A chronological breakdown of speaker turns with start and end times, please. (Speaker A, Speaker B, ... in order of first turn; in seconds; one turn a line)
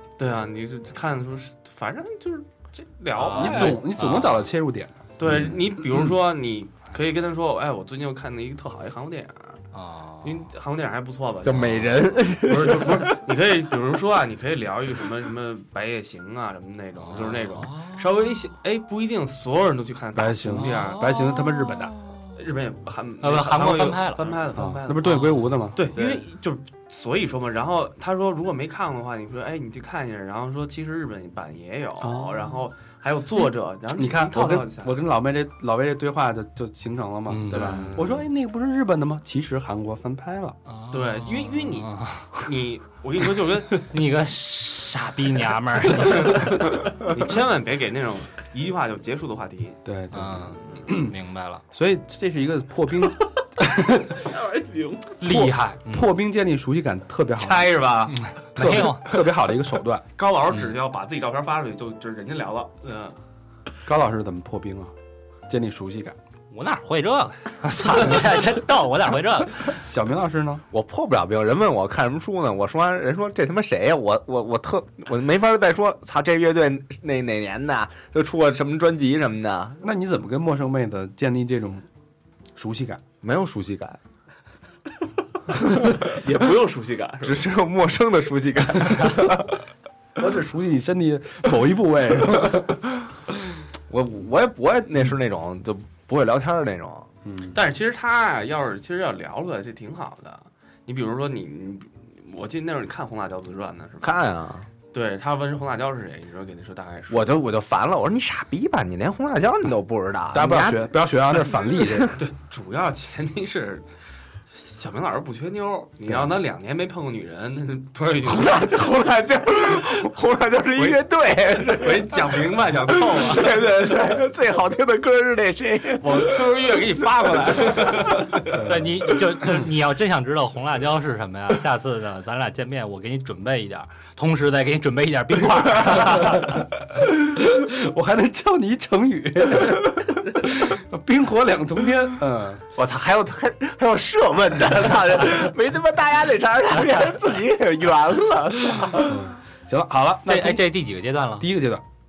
Speaker A: 0.2-3.9
Speaker B: 3.1-4.4
Speaker C: 3.3-5.0
Speaker A: 5.2-9.6
Speaker B: 9.7-10.4
Speaker A: 10.2-21.1
Speaker D: 11.4-13.2
Speaker B: 17.0-18.2
Speaker C: 20.1-21.9
Speaker B: 20.5-22.4
Speaker A: 22.4-35.0
Speaker B: 23.2-24.4
Speaker C: 24.6-25.9
Speaker B: 25.0-25.6
Speaker E: 25.9-26.2
Speaker C: 32.0-32.5
Speaker C: 33.9-40.6
Speaker B: 37.3-38.0
Speaker A: 37.5-38.2
Speaker B: 40.7-42.4
Speaker A: 40.9-43.9
Speaker B: 43.8-46.7
Speaker A: 46.1-49.8
Speaker C: 49.9-51.1
Speaker B: 50.1-51.6
Speaker C: 51.7-54.1
Speaker E: 54.1-55.2
Speaker B: 55.2-56.1
Speaker C: 55.3-57.7
Speaker A: 57.4-58.2
Speaker B: 58.1-59.1
Speaker C: 58.6-60.0
Speaker A: 60.2-63.2
Speaker C: 63.9-64.9
Speaker C: 65.5-66.2
Speaker B: 66.5-69.8
Speaker C: 69.8-70.6
Speaker D: 70.7-79.8
Speaker C: 79.8-81.9
Speaker C: 82.5-83.0
Speaker D: 83.2-84.0
Speaker D: 85.7-86.1
Speaker E: 86.0-87.5
Speaker D: 87.2-89.6
Speaker C: 90.2-92.8
Speaker D: 93.9-97.1
Speaker C: 97.2-97.6
Speaker A: 97.5-104.2
Speaker D: 104.0-104.7
Speaker A: 104.9-107.4
Speaker D: 107.1-110.9
Speaker C: 110.3-112.2
Speaker D: 111.8-112.1
Speaker A: 112.2-113.9
Speaker A: 114.5-118.9
Speaker D: 118.2-126.4
Speaker A: 120.8-121.0
Speaker A: 121.6-123.8
Speaker A: 126.0-128.5
Speaker C: 128.5-129.7
Speaker B: 128.6-136.7
Speaker C: 135.9-142.6
Speaker D: 142.7-149.2
Speaker C: 148.9-150.7
Speaker B: 150.2-151.5
Speaker C: 151.4-151.8